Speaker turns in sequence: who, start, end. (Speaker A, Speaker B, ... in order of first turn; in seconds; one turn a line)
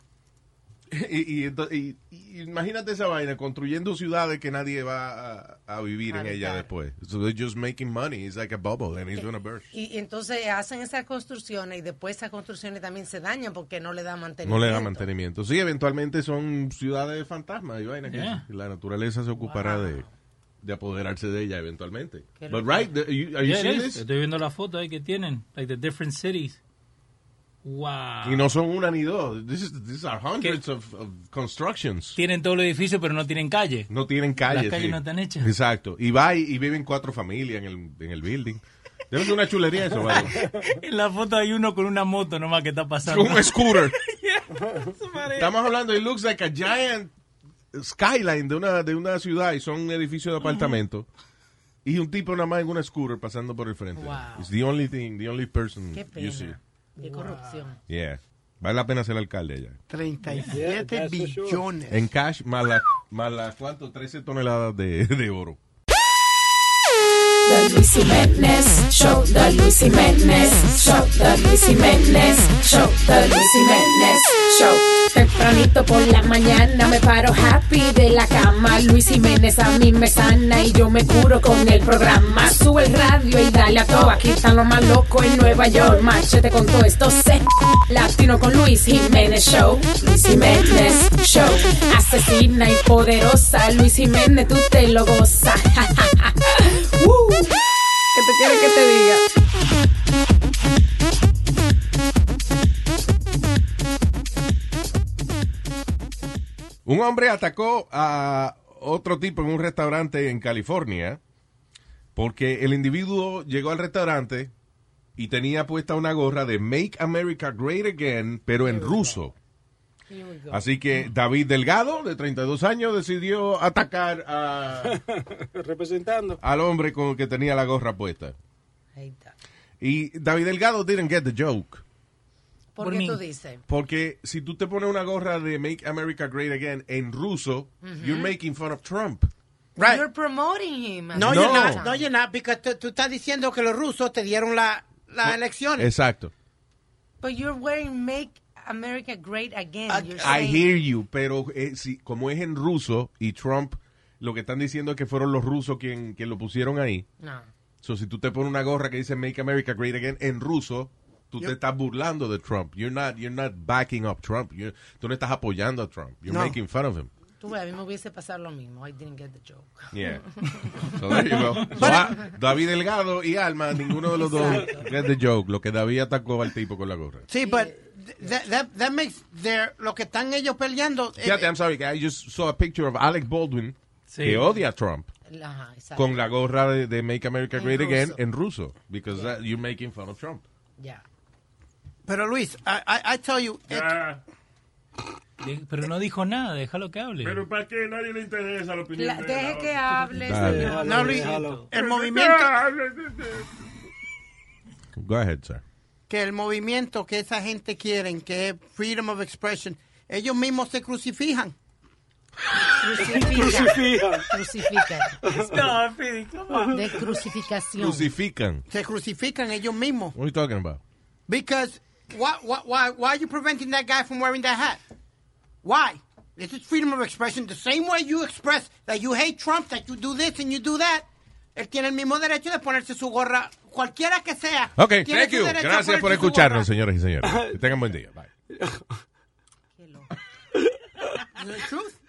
Speaker A: 0.9-9.7
Speaker B: 6.1-6.7
Speaker B: 9.2-15.1
Speaker A: 14.4-20.0
Speaker C: 18.1-18.4
Speaker B: 19.4-20.1
Speaker A: 20.6-24.0
Speaker B: 22.4-22.9
Speaker C: 23.4-26.6
Speaker C: 27.6-28.4
Speaker A: 28.2-32.2
Speaker C: 32.2-33.9
Speaker A: 33.9-40.4
Speaker C: 34.5-35.5
Speaker C: 40.1-45.5
Speaker A: 43.0-43.9
Speaker A: 45.3-47.1
Speaker A: 47.7-51.1
Speaker C: 50.4-50.7
Speaker A: 51.8-56.6
Speaker B: 54.0-54.5
Speaker B: 55.9-57.8
Speaker D: 57.0-57.6
Speaker A: 57.9-59.8
Speaker E: 59.9-62.0
Speaker C: 60.3-60.6
Speaker D: 60.5-61.6
Speaker A: 61.9-65.6
Speaker F: 67.5-96.7
Speaker A: 106.8-111.2
Speaker A: 112.1-114.5
Speaker A: 115.2-119.3
Speaker B: 118.7-119.2
Speaker B: 120.1-120.8
Speaker A: 120.5-125.0
Speaker D: 124.8-126.4
Speaker A: 126.4-128.3
Speaker B: 128.9-129.3
Speaker A: 129.8-131.8
Speaker B: 132.7-133.6
Speaker C: 132.8-133.2
Speaker A: 133.7-139.3
Speaker B: 137.8-138.3
Speaker E: 139.8-140.0
Speaker B: 139.8-142.1
Speaker E: 141.1-145.9
Speaker A: 141.2-141.8
Speaker A: 145.2-146.3
Speaker B: 147.2-150.7
Speaker E: 149.9-150.5
Speaker A: 150.2-157.1
Speaker B: 157.2-157.5
Speaker A: 157.8-167.1
Speaker E: 166.2-166.6
Speaker B: 167.4-170.8
Speaker A: 169.9-170.2
Speaker A: 170.8-177.2
Speaker B: 171.7-172.3
Speaker B: 174.1-174.9
Speaker E: 177.3-181.5
Speaker B: 177.4-178.3
Speaker A: 181.2-185.1
Speaker C: 184.1-184.5
Speaker B: 185.3-186.3
Speaker A: 185.9-190.4
Speaker B: 187.6-188.2
Speaker B: 190.8-191.0
Speaker E: 192.1-193.9
Speaker G: 193.7-194.2
Speaker C: 195.4-197.4
Speaker G: 197.2-200.0
Speaker B: 198.9-201.2
Speaker A: 200.2-200.8
Speaker D: 200.4-201.6
Speaker C: 200.6-201.7
Speaker E: 200.8-202.6
Speaker G: 201.7-203.5
Speaker A: 204.9-205.6
Speaker E: 206.1-211.5
Speaker B: 212.7-215.2
Speaker D: 212.9-214.3
Speaker D: 215.2-215.8
Speaker C: 215.3-216.9
Speaker B: 216.7-218.1
Speaker A: 217.8-218.6
Speaker E: 218.7-220.1
Speaker A: 220.1-220.8
Speaker E: 221.3-224.8
Speaker E: 225.6-236.7
Speaker A: 234.8-238.3
Speaker D: 237.2-237.6
Speaker D: 238.5-238.8
Speaker B: 239.8-240.1
Speaker E: 241.3-242.0